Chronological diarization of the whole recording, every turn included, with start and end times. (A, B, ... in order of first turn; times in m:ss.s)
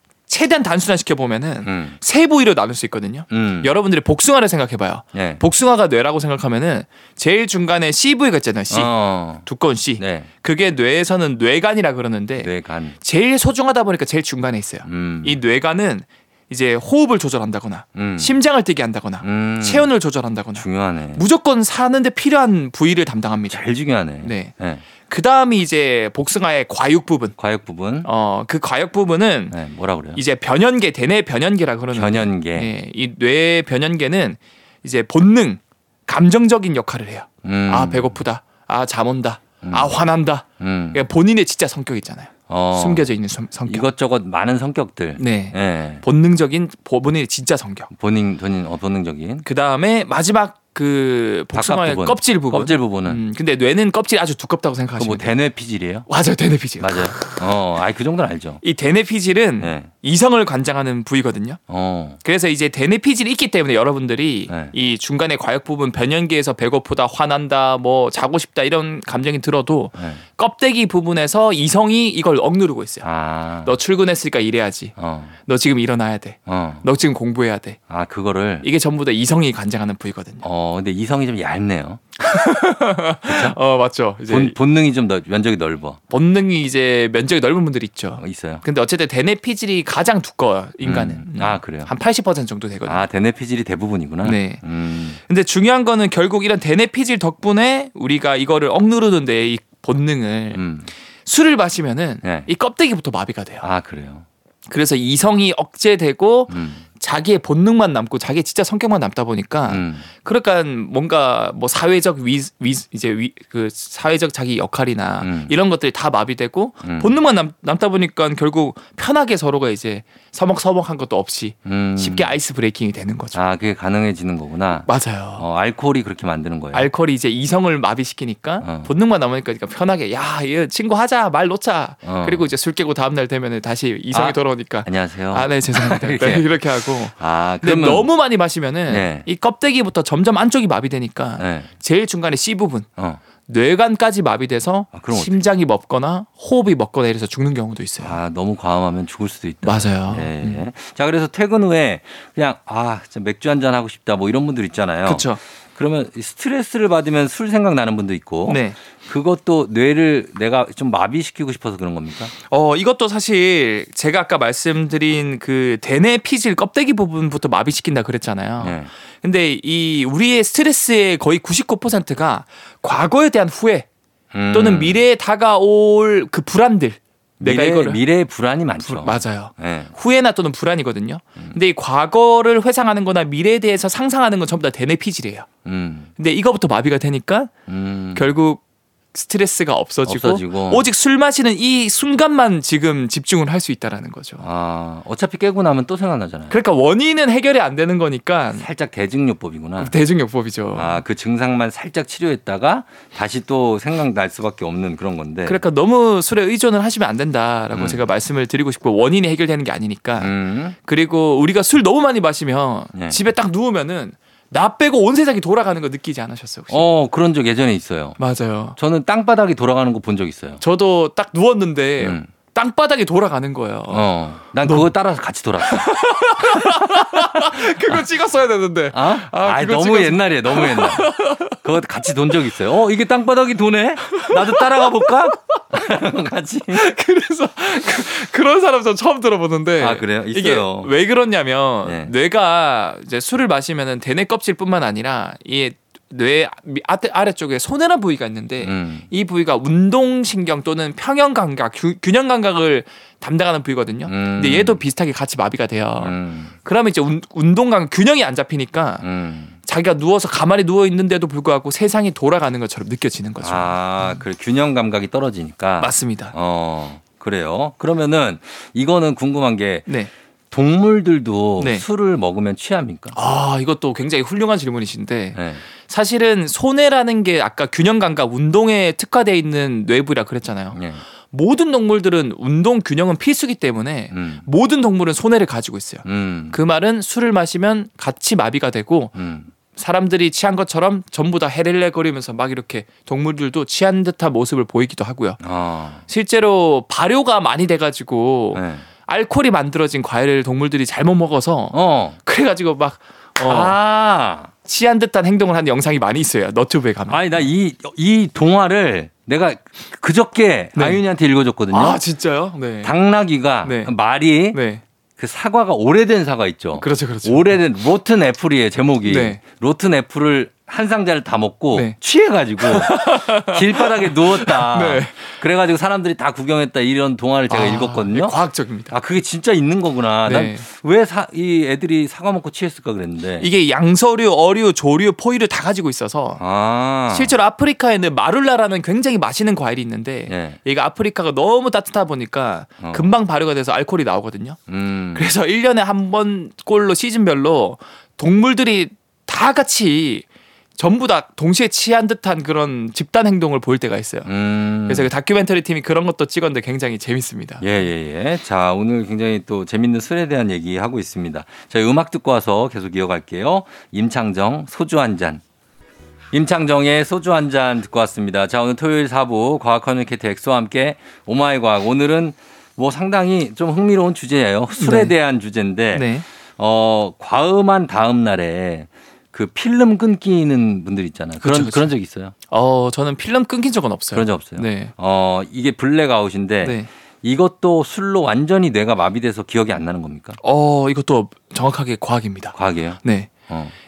0:00.3-0:23.6 A
0:01.6-0:02.0 B
0:03.3-0:03.8 B
0:05.1-0:05.4 B
0:08.7-0:09.4 B
0:10.0-0:10.3 B
0:12.4-0:13.0 B
0:14.8-0:15.4 B
0:17.9-0:18.4 B
0:19.2-0:19.9 B
0:20.5-0:21.2 B
0:23.5-0:24.8 B
0:24.2-0:24.5 A
0:25.1-0:27.4 A
0:27.4-0:28.1 B
0:28.0-0:29.5 A
0:29.5-0:30.2 B
0:30.1-0:43.9 A
0:31.9-0:32.7 B
0:37.4-0:38.2 B
0:39.6-0:40.0 B
0:40.6-0:41.0 B
0:42.5-0:43.0 B
0:43.7-0:46.0 B
0:45.2-0:47.9 A
0:47.9-0:49.4 B
0:49.4-0:55.3 A
0:51.5-0:53.2 B
0:55.0-0:56.1 B
0:56.1-0:57.4 A
0:56.8-0:58.6 B
0:58.6-1:01.6 A
0:59.6-0:59.9 B
1:01.7-1:02.2 B
1:02.2-1:13.1 A
1:10.0-1:10.2 B
1:13.0-1:13.8 B
1:13.6-1:17.8 A
1:15.0-1:15.3 B
1:16.5-1:16.8 B
1:17.9-1:18.7 B
1:18.6-1:20.4 A
1:20.4-1:22.0 B
1:22.2-1:24.5 A
1:23.2-1:23.6 B
1:24.3-1:26.0 B
1:26.1-1:33.0 A
1:28.2-1:28.6 B
1:30.8-1:31.9 B
1:32.8-1:35.2 B
1:34.2-1:34.6 A
1:35.2-1:40.6 A
1:40.5-1:40.9 B
1:41.2-1:43.6 A
1:42.2-1:42.5 B
1:43.6-1:44.2 B
1:44.7-2:03.4 A
1:46.5-1:46.8 B
1:49.7-1:50.1 B
1:55.2-1:55.5 B
1:56.8-1:57.2 B
2:01.6-2:02.3 B
2:03.3-2:06.9 B
2:04.8-2:05.4 A
2:06.7-2:22.9 A
2:08.6-2:08.9 B
2:12.0-2:12.5 B
2:14.1-2:18.1 B
2:18.9-2:19.2 B
2:21.4-2:21.7 B
2:23.4-2:28.2 A
2:24.9-2:25.4 B
2:28.0-2:42.3 B
2:29.6-2:30.6 A
2:35.0-2:35.4 A
2:38.4-2:38.8 A
2:42.5-2:53.9 A
2:48.6-2:48.9 B
2:54.3-2:55.0 B
2:54.5-2:58.0 A
2:57.4-2:59.9 B
2:58.8-3:05.5 A
3:05.6-3:06.1 B
3:06.2-3:07.5 A
3:07.7-3:08.3 B
3:08.1-3:08.6 A
3:09.1-3:14.4 A
3:10.0-3:10.9 B
3:14.4-3:16.5 B
3:16.5-3:18.6 A
3:18.6-3:19.9 B
3:19.8-3:21.0 A
3:20.7-3:25.6 B
3:25.4-3:36.8 A
3:27.7-3:28.0 B
3:30.2-3:30.8 B
3:32.9-3:33.2 B
3:36.7-3:38.2 B
3:38.2-3:38.8 A
3:38.8-3:40.6 B
3:40.6-3:44.0 A
3:42.0-3:42.3 B
3:43.9-3:45.9 B
3:45.6-3:51.6 A
3:46.4-3:46.7 B
3:47.5-3:48.0 B
3:48.9-3:56.8 B
3:54.1-3:55.2 A
3:56.7-4:19.0 A
3:59.8-4:00.9 B
4:01.8-4:02.1 B
4:08.6-4:09.1 B
4:14.1-4:14.8 B
4:16.0-4:16.5 B
4:19.0-4:19.6 B
4:19.6-4:24.2 A
4:23.4-4:29.9 B
4:25.8-4:26.3 A
4:30.5-4:33.1 B
4:31.6-4:31.8 A
4:33.1-4:49.1 A
4:35.3-4:35.6 B
4:40.7-4:41.0 B
4:44.1-4:44.4 B
4:46.0-4:46.6 B
4:49.1-4:49.5 B
4:49.7-4:55.4 A
4:55.4-4:56.0 B
4:56.1-5:03.8 A
4:58.5-4:58.9 B
5:01.7-5:02.2 B
5:03.4-5:04.5 B
5:04.6-5:07.5 A
5:07.1-5:12.0 B
5:10.7-5:11.0 A
5:11.7-5:12.9 A
5:12.8-5:14.6 B
5:13.6-5:13.9 A
5:14.5-5:14.8 A
5:15.2-5:28.3 B
5:16.8-5:17.6 A
5:19.0-5:19.4 A
5:22.6-5:25.2 A
5:27.5-5:28.9 A
5:28.9-5:33.5 B
5:30.2-5:30.6 A
5:33.4-5:36.4 A
5:36.4-5:37.4 B
5:37.1-5:44.6 A
5:40.3-5:40.6 B
5:42.8-5:43.1 B
5:44.7-5:45.3 B
5:45.1-5:50.2 A
5:50.8-5:54.3 A
5:54.2-5:55.1 B
5:54.8-5:57.6 A
5:57.6-6:05.4 B
6:06.3-6:22.3 B
6:14.8-6:15.1 A
6:15.9-6:16.2 A
6:21.4-6:21.9 A
6:22.5-6:24.9 A
6:24.1-6:30.4 B
6:26.6-6:26.9 A
6:30.4-6:33.3 A
6:32.5-6:33.7 B